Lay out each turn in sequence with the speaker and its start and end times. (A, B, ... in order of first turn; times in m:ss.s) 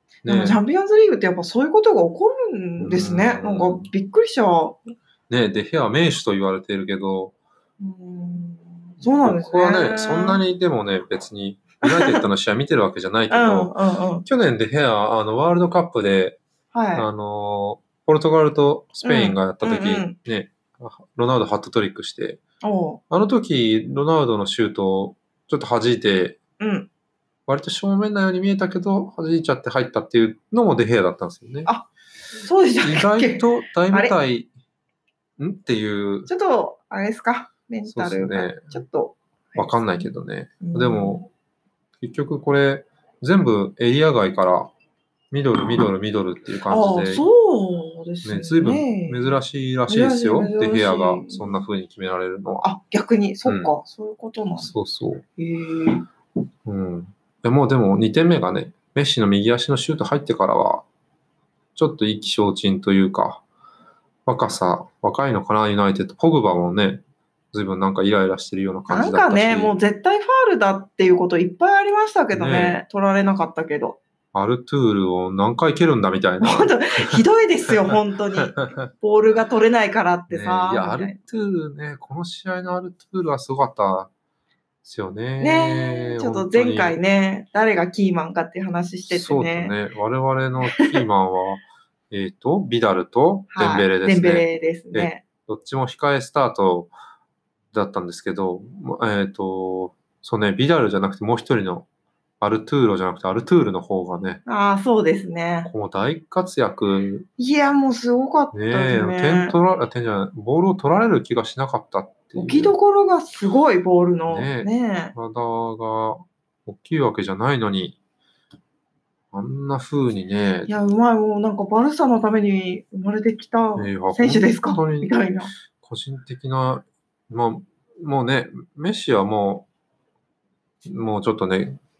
0:00.2-0:00.6 A
0:00.3-0:04.8 B
0:02.8-0:03.9 A
0:05.3-0:07.3 A
0:07.8-0:10.4 B
0:09.2-0:13.7 A
0:11.8-0:12.2 B
0:13.3-0:14.3 B
0:14.2-0:16.4 A
0:16.7-0:17.1 B
0:17.0-0:22.4 A
0:19.0-0:20.2 B
0:22.6-0:23.0 B
0:23.1-0:26.4 A
0:26.6-0:26.9 B
0:27.5-0:31.7 A
0:32.4-0:34.1 B
0:32.8-0:34.5 A
0:35.4-0:36.3 A
0:36.3-0:39.7 B
0:37.9-0:38.8 A
0:39.6-0:41.3 A
0:40.6-0:41.2 B
0:42.0-0:44.7 A
0:45.3-0:47.3 A
0:46.7-0:49.4 B
0:48.2-0:52.7 A
0:49.9-0:51.4 B
0:52.6-0:54.7 B
0:53.4-0:53.7 A
0:54.6-0:55.2 A
0:55.4-0:56.0 B
0:56.6-1:00.9 A
1:01.8-1:03.4 A
1:04.3-1:09.7 A
1:08.9-1:14.0 B
1:12.3-1:12.8 A
1:14.3-1:18.9 A
1:16.4-1:21.2 B
1:20.3-1:24.1 A
1:24.8-1:27.0 A
1:25.4-1:29.8 B
1:29.1-1:36.9 A
1:33.5-1:35.2 B
1:37.7-1:41.9 A
1:42.4-1:44.4 A
1:44.5-1:45.7 B
1:45.7-1:47.3 A
1:47.4-1:49.6 B
1:48.5-1:52.8 A
1:52.4-1:55.2 B
1:54.3-1:58.0 A
1:59.3-2:00.7 A
2:00.7-2:05.5 B
2:03.8-2:05.1 A
2:05.8-2:09.7 A
2:10.9-2:11.8 A